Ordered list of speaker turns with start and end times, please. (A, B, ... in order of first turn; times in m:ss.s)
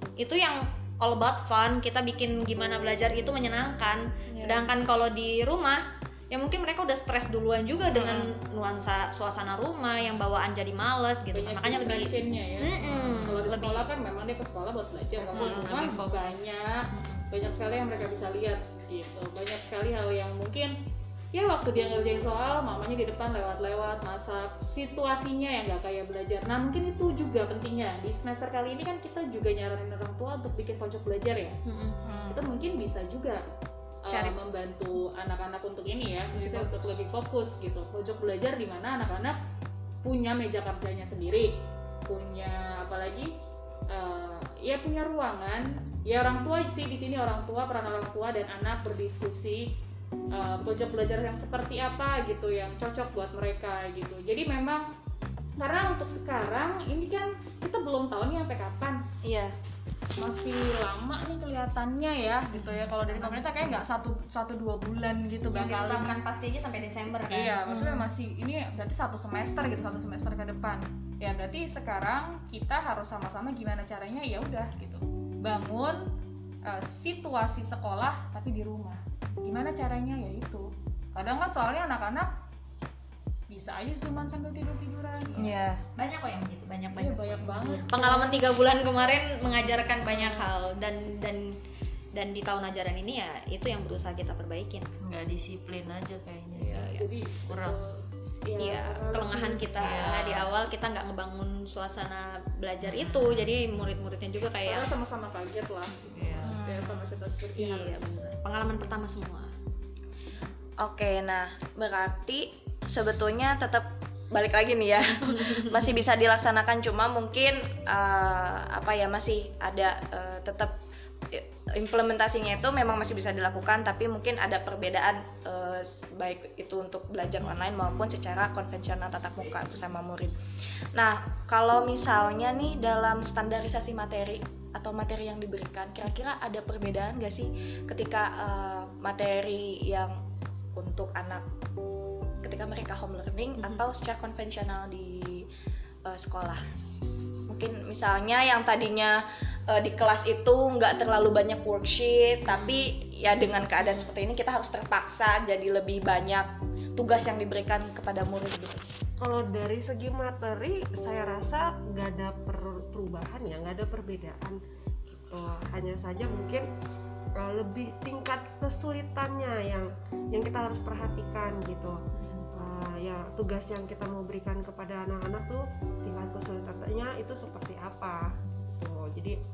0:00.2-0:13.9 A
0:04.3-0:04.7 B
0:07.9-0:08.3 B
0:11.3-0:20.8 B
0:15.3-0:15.6 C
0:15.3-0:17.2 A
0:15.3-0:16.3 D
0:21.3-0:31.6 B
0:31.6-0:32.0 A
0:32.3-0:33.4 B
0:34.0-0:39.4 B
0:34.1-0:34.4 A
0:40.0-0:43.3 B
0:43.9-0:49.7 B
0:50.3-0:54.9 B
0:55.6-0:59.0 B
0:59.2-0:59.6 C
1:00.2-1:06.2 B
1:02.5-1:03.9 A
1:05.5-1:07.7 A
1:07.3-1:16.1 B
1:16.6-1:22.4 B
1:23.5-1:25.5 B
1:25.4-1:25.8 C
1:26.0-1:31.6 A
1:27.0-1:28.6 B
1:30.1-1:30.4 B
1:32.1-1:34.9 A
1:35.0-1:37.8 D
1:36.5-1:39.6 B
1:38.6-1:44.9 A
1:39.7-1:40.5 D
1:42.8-1:43.5 D
1:44.7-1:48.2 B
1:46.0-1:47.1 D
1:47.6-1:49.5 A
1:50.8-2:00.8 C
1:55.3-1:55.7 A
2:01.3-2:10.4 C
2:10.9-2:20.2 C
2:20.8-2:21.5 C
2:22.4-2:25.5 C
2:26.0-2:26.7 C
2:27.5-2:38.8 C
2:32.5-2:32.8 A
2:33.8-2:34.0 A
2:39.2-2:46.7 E
2:47.4-2:59.4 E
2:52.2-2:52.5 A